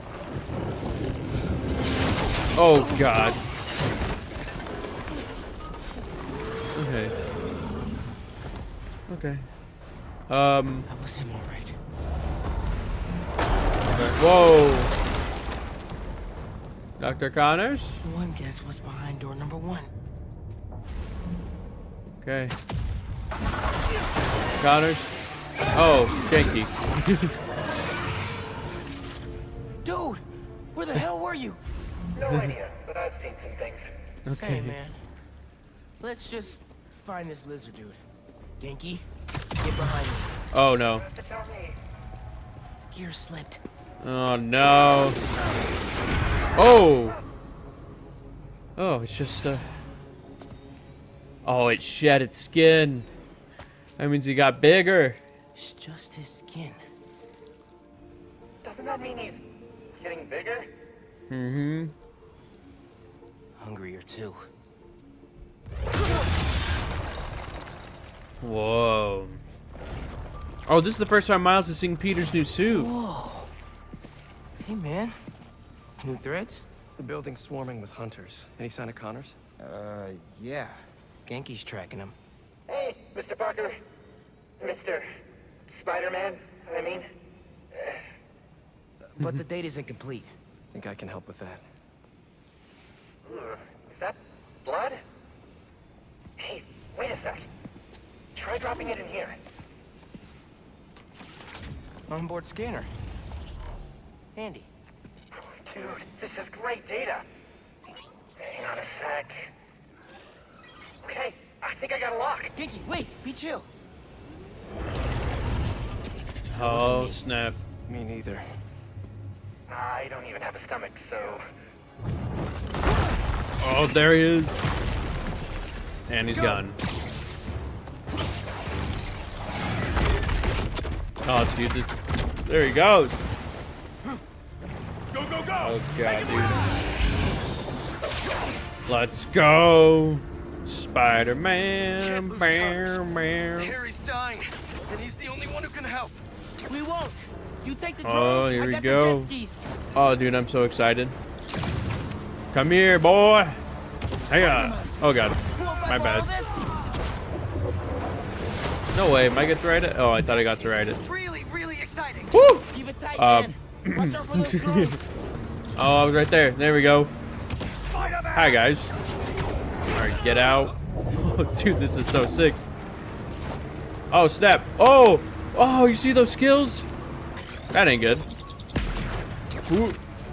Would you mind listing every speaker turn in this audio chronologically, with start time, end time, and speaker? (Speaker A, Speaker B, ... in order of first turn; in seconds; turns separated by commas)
Speaker A: 2.5-3.4, Speaker A: 6.7-7.1, Speaker A: 9.1-9.5, Speaker A: 10.3-10.9, Speaker B: 10.9-11.8, Speaker A: 13.9-14.9, Speaker A: 17.0-18.0, Speaker B: 18.0-19.9, Speaker A: 22.2-22.5, Speaker A: 24.6-25.1, Speaker A: 25.7-27.3, Speaker B: 29.8-30.2, Speaker B: 30.7-31.6, Speaker C: 32.1-33.9, Speaker A: 34.2-34.8, Speaker B: 34.2-35.0, Speaker B: 36.0-38.0, Speaker B: 38.6-39.0, Speaker B: 39.6-40.4, Speaker A: 40.5-41.0, Speaker C: 41.0-41.7, Speaker B: 42.9-43.6, Speaker A: 44.0-45.2, Speaker A: 46.5-47.2, Speaker A: 48.8-49.6, Speaker A: 51.4-53.1, Speaker A: 54.0-55.2, Speaker B: 55.5-56.8, Speaker C: 58.6-60.7, Speaker A: 61.3-61.9, Speaker B: 63.6-64.5, Speaker A: 68.4-69.4, Speaker A: 70.7-72.9, Speaker B: 72.7-73.5, Speaker B: 74.6-75.2, Speaker B: 76.0-76.7, Speaker D: 77.0-79.4, Speaker B: 79.6-82.2, Speaker C: 82.7-83.8, Speaker C: 84.6-85.0, Speaker C: 85.7-87.1, Speaker B: 89.1-90.3, Speaker D: 90.7-91.6, Speaker C: 93.2-95.0, Speaker C: 96.4-97.5, Speaker C: 98.3-99.4, Speaker B: 102.1-102.9, Speaker B: 104.3-104.7, Speaker C: 105.3-107.2, Speaker C: 108.4-109.5, Speaker C: 111.0-112.5, Speaker B: 112.5-113.7, Speaker A: 116.5-117.6, Speaker B: 116.5-117.2, Speaker D: 117.9-118.5, Speaker C: 119.7-121.4, Speaker A: 123.6-124.6, Speaker A: 126.1-126.8, Speaker E: 126.3-126.6, Speaker A: 131.2-133.2, Speaker E: 135.1-136.8, Speaker A: 135.6-136.6, Speaker A: 138.9-143.7, Speaker E: 142.0-143.0, Speaker E: 143.6-146.2, Speaker B: 146.7-149.6, Speaker A: 148.0-149.3, Speaker A: 149.9-151.2, Speaker A: 152.5-153.6, Speaker E: 154.3-155.0, Speaker A: 154.3-156.3, Speaker B: 155.5-156.5, Speaker A: 158.9-161.0, Speaker F: 160.3-162.3, Speaker A: 162.3-165.0, Speaker B: 162.7-165.0, Speaker A: 165.8-167.1, Speaker E: 167.6-168.7, Speaker A: 168.3-168.9, Speaker A: 169.9-172.6, Speaker E: 170.2-170.8, Speaker A: 174.1-176.9, Speaker A: 177.7-178.2, Speaker A: 179.7-180.0